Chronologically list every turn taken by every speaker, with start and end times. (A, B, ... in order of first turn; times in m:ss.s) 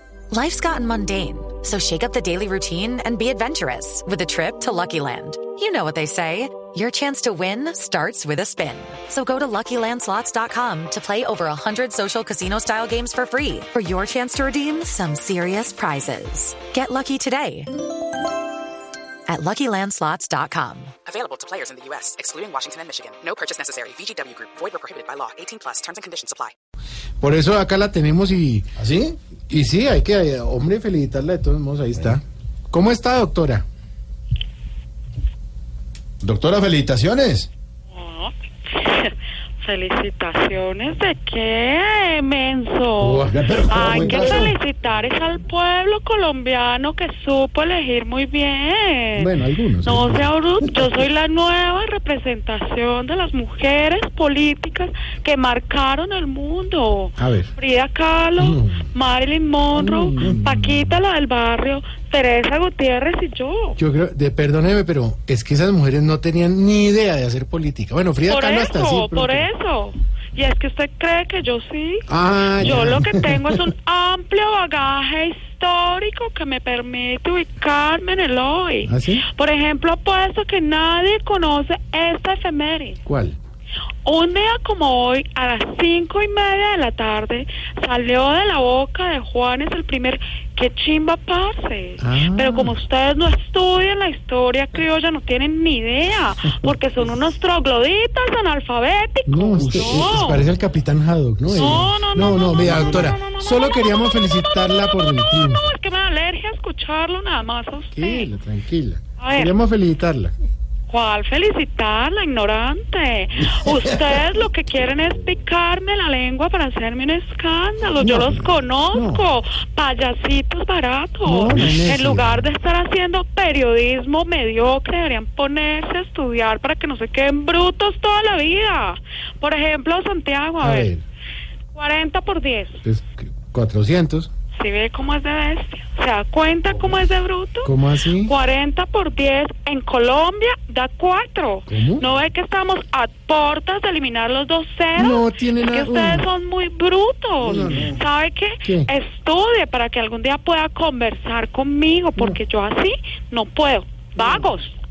0:00.3-0:17.7 A
0:19.3-0:20.9 A
0:21.0-0:26.5 B
0:27.2-0:28.7 C
0:28.8-0:29.2 D
0:29.5-0:33.6 C
0:36.2-0:37.5 D
0:37.9-1:03.8 E
0:43.0-0:44.4 C
0:43.2-0:44.6 D
0:49.2-0:50.3 C
0:57.2-0:57.5 C
0:58.4-0:58.9 C
0:59.7-1:00.9 C
1:03.8-1:09.5 C
1:08.2-1:23.0 E
1:12.1-1:13.0 C
1:12.6-1:13.4 D
1:18.8-1:19.2 C
1:23.0-1:23.4 C
1:24.0-1:40.4 E
1:32.0-1:32.8 C
1:39.2-1:45.6 C
1:39.6-1:40.5 D
1:41.4-1:48.3 E
1:42.3-1:43.1 D
1:47.9-1:50.3 C
1:49.2-1:49.5 E
1:50.9-2:10.9 E
1:58.0-1:59.2 C
2:01.2-2:02.5 C
2:10.6-2:11.0 C
2:11.7-2:12.8 E
2:12.8-2:14.3 C
2:14.5-2:34.8 E
2:17.6-2:18.3 C
2:21.7-2:22.0 C
2:25.0-2:26.3 C
2:27.4-2:28.0 C
2:27.5-2:28.0 D
2:28.6-2:28.9 C